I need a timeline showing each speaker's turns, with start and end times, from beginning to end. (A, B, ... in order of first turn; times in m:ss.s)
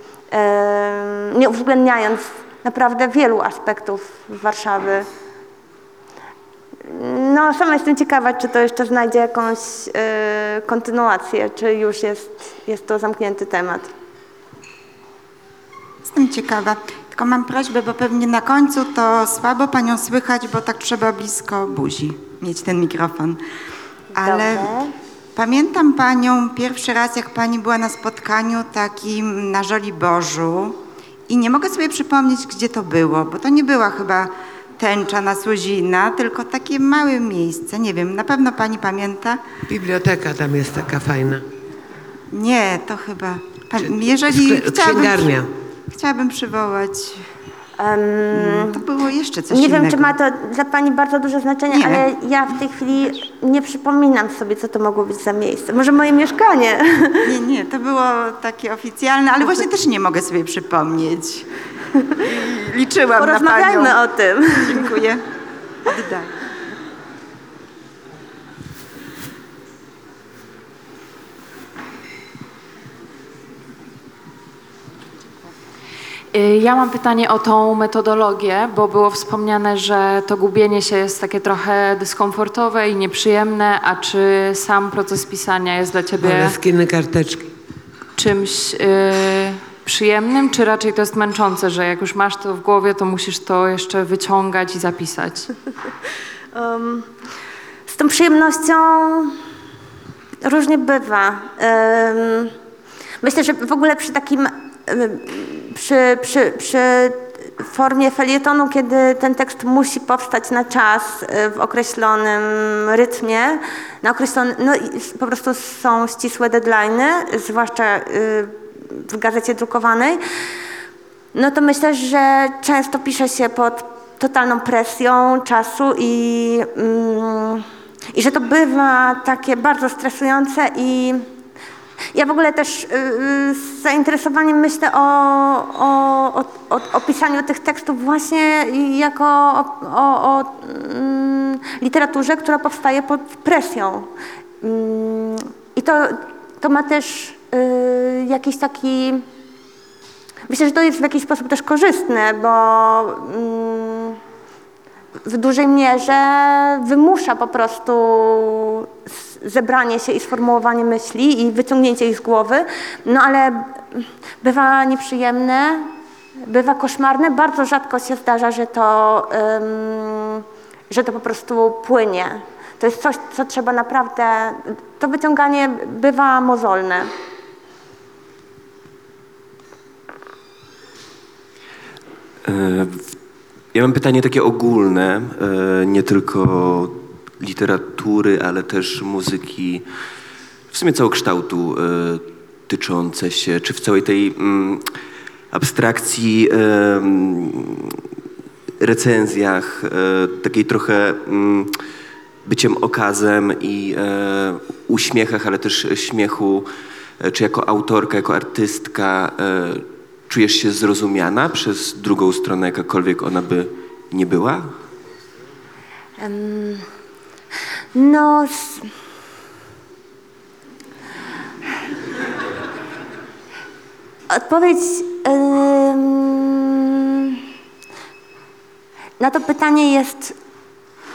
0:00.3-0:05.1 A
0:06.8-0:13.9 A
0:16.0-0:23.4 B
0:24.1-0:24.9 A
0:24.2-0:24.7 B
0:25.3-0:39.4 B
0:39.7-0:41.4 C
0:42.3-0:45.3 B
0:43.8-0:45.5 C
0:45.9-0:47.3 B
0:47.8-0:48.8 A
0:48.3-0:50.1 B
0:49.5-0:57.3 A
0:51.7-0:52.0 B
0:57.3-1:01.5 B
1:02.2-1:04.0 B
1:03.2-1:05.0 A
1:04.6-1:05.2 B
1:05.9-1:06.3 B
1:16.3-1:26.6 D
1:26.2-1:27.5 C
1:28.2-1:35.5 D
1:36.5-1:37.1 A
1:37.9-1:39.4 A
1:40.4-1:42.5 A
1:43.2-2:00.2 A
2:01.3-2:11.2 A
2:12.1-2:24.1 A
2:24.6-2:29.2 A
2:30.5-2:34.2 A
2:35.2-2:45.9 A
2:46.4-2:57.1 A
3:02.4-3:03.1 E
3:03.7-3:09.8 E
3:10.7-3:14.9 E
3:15.5-3:18.0 E
3:18.8-3:21.7 E
3:22.4-3:26.7 E
3:27.2-3:34.7 E
3:36.2-3:36.9 A
3:38.0-3:38.9 A
3:44.3-3:47.4 A
3:49.2-3:50.4 A